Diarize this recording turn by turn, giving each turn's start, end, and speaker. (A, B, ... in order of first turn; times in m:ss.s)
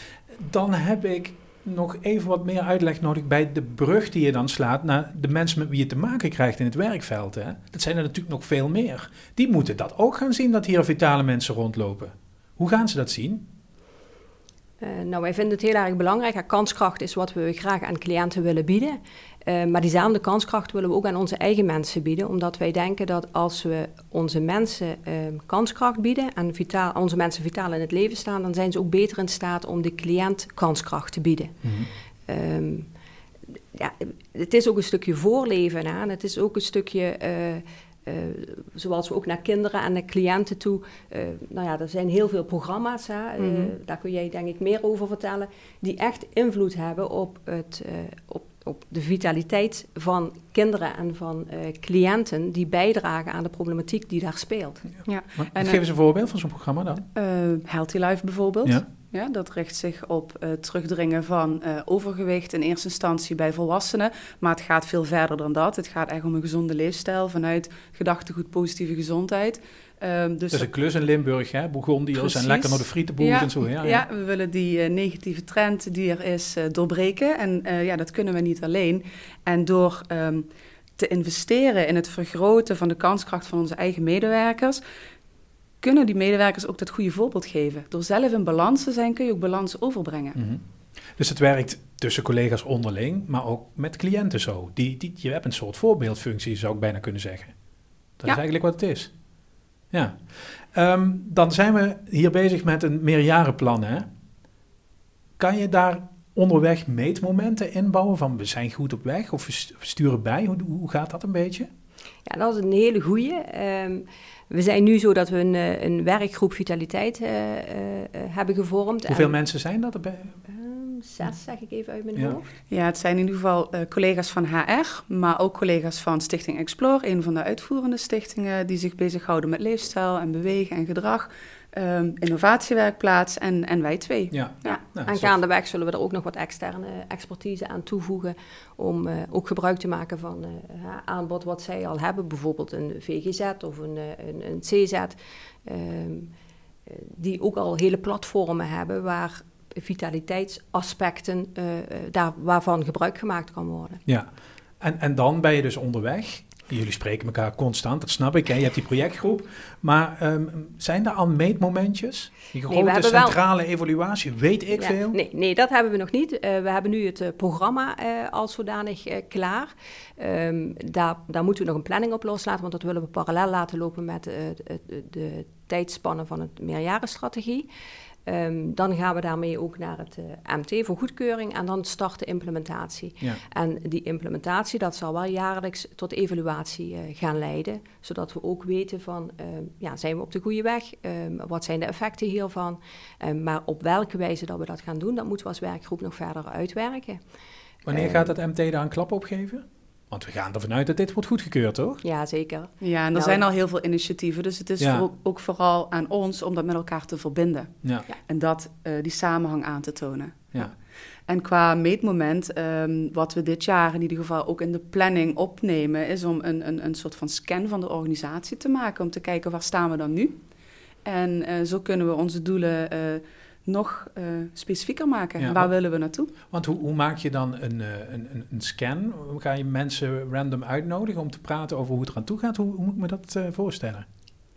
0:00.3-0:13.5 A
0:14.8-0:31.6 B
0:31.6-0:31.9 A
0:32.3-0:32.9 B
0:33.7-0:54.9 B
0:43.4-0:43.7 C
0:55.1-0:55.8 C
0:55.4-0:57.0 A
0:57.2-1:10.7 C
1:10.5-1:14.0 A
1:12.2-1:20.5 C
1:21.0-1:24.8 C
1:25.8-1:30.4 C
1:30.4-1:30.6 A
1:31.2-1:37.5 A
1:38.2-1:39.1 A
1:39.9-1:44.1 A
1:45.4-1:51.7 A
1:52.3-1:59.4 B
1:59.1-2:00.4 A
2:00.5-2:02.5 B
2:02.7-2:14.8 C
2:14.3-2:15.4 A
2:15.0-2:26.3 B
2:26.9-2:34.0 B
2:34.8-2:45.2 A
2:42.7-2:43.4 B
2:44.7-2:57.7 B
2:58.3-3:17.2 B
3:17.9-3:22.0 A
3:17.9-3:18.3 B
3:22.0-3:23.4 B
3:22.8-3:30.6 C
3:24.8-3:25.1 A
3:31.3-3:40.4 C
3:41.0-3:46.3 C
3:45.4-3:45.7 A
3:46.5-3:54.1 A